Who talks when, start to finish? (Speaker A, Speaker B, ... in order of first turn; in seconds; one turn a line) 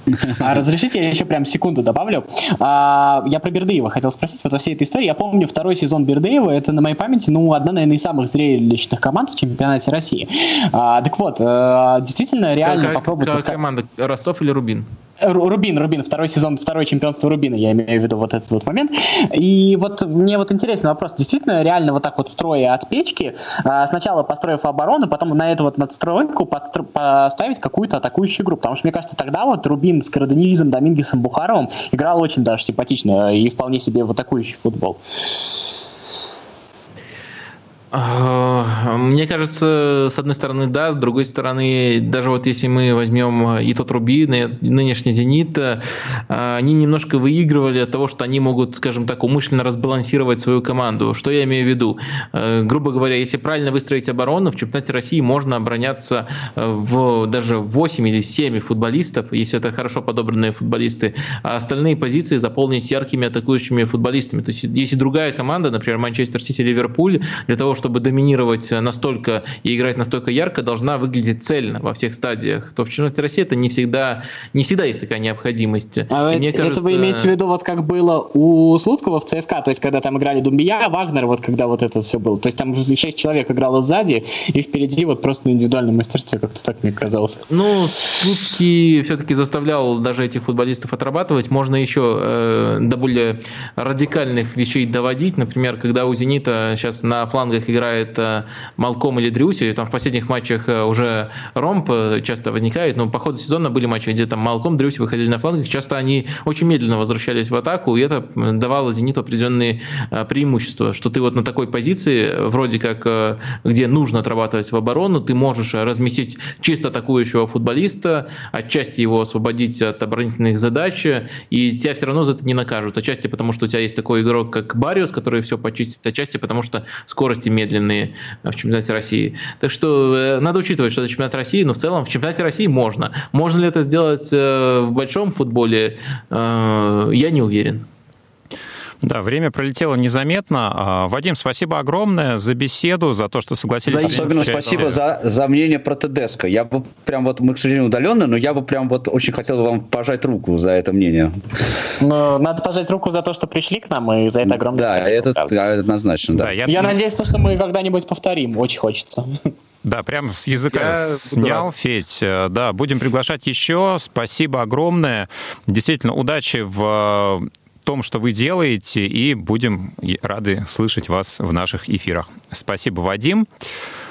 Speaker A: 0.2-13.6
Speaker B: 12.6-14.9
Speaker A: 15.2-35.0
Speaker B: 37.9-77.3
Speaker A: 76.1-87.5
Speaker B: 87.5-137.8
Speaker C: 139.0-144.9
Speaker D: 143.8-151.4
Speaker B: 144.1-144.8
Speaker A: 152.0-155.5
Speaker D: 154.4-156.9
Speaker C: 156.3-156.9
Speaker A: 156.7-159.4
Speaker C: 159.8-173.5
Speaker B: 160.6-161.7